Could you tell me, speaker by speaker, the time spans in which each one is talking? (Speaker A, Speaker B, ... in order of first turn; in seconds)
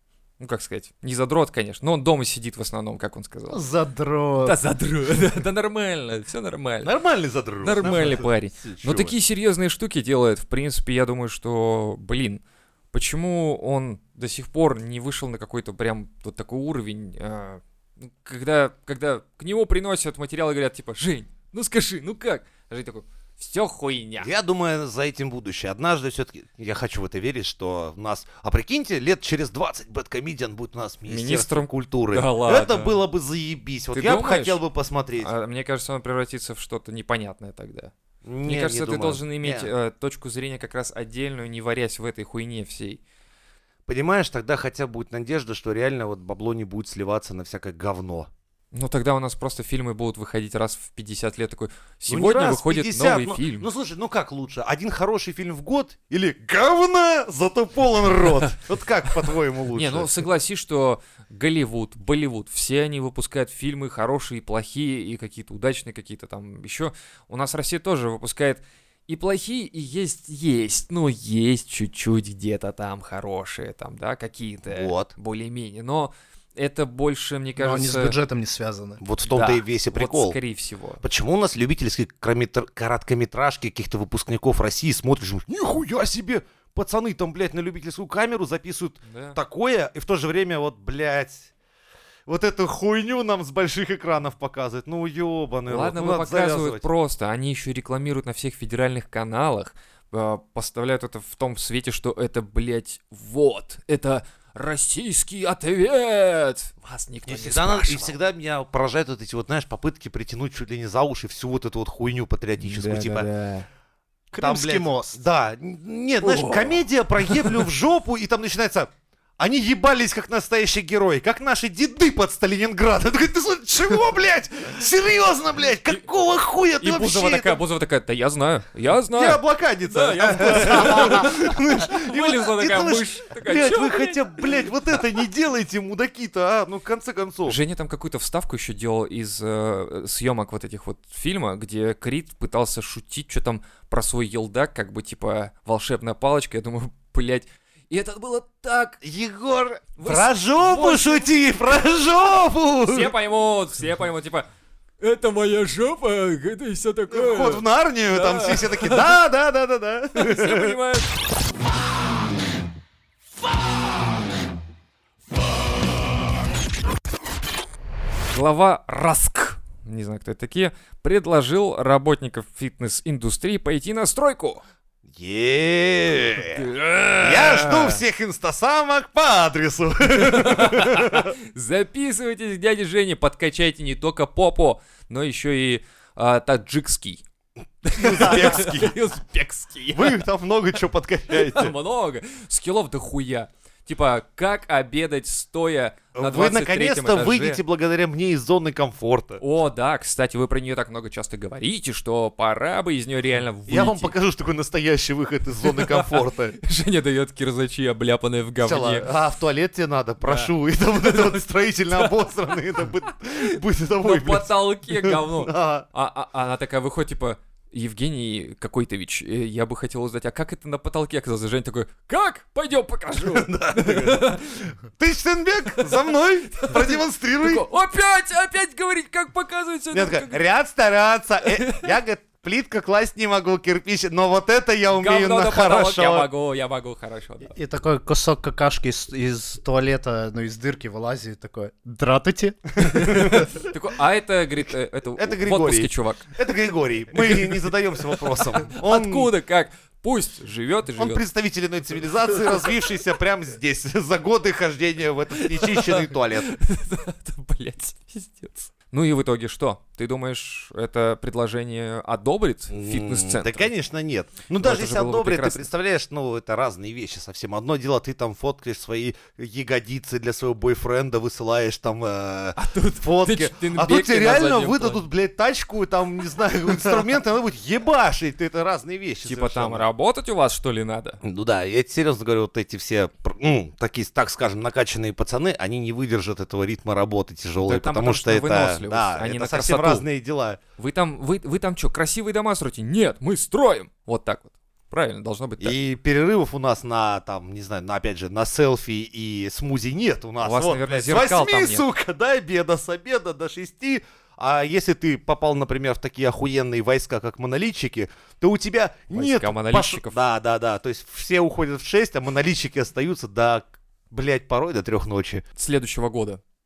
Speaker A: 0.4-3.6, 4.4-6.9, 7.6-24.3, 31.1-33.0, 33.9-34.6, 35.2-43.0, 48.7-53.7, 59.7-78.1, 79.2-81.0, 89.0-89.4, 95.7-108.2, 112.6-113.6, 116.2-117.6, 126.8-134.4, 137.5-149.0, 150.0-151.3, 152.8-154.5, 155.0-159.1, 160.1-161.1, 168.3-174.6, 176.4-178.0, 180.1-187.2, 187.8-190.2, 191.3-197.6, 199.4-204.1, 205.6-209.1, 210.2-211.4, 214.0-224.7, 226.6-230.4, 231.5-231.9, 234.9-237.5, 242.9-246.2, 247.1-247.7, 248.2-251.2, 255.4-263.7, 264.6-265.7, 272.6-275.1, 279.2-281.2, 287.6-290.1, 290.8-295.8, 300.4-301.9, 309.1-310.2, 315.6-316.4
Speaker B: 3.5-4.6, 77.6-79.0, 114.3-115.2, 237.4-243.4
Speaker C: 6.8-9.1, 24.2-35.3, 38.2-39.7, 43.9-48.3, 52.1-60.2, 74.6-75.1, 79.0-80.4, 81.0-91.5, 92.3-96.9, 107.2-113.3, 114.4-127.6, 129.1-137.6, 149.0-153.1, 157.1-160.8, 175.1-176.7, 177.2-181.3, 187.9-189.0, 189.9-191.7, 196.1-199.4, 203.7-206.6, 208.6-215.8, 223.2-227.7, 229.9-236.3, 242.8-243.5, 245.2-249.3, 250.9-256.5, 262.7-279.9, 281.2-290.6, 295.6-315.4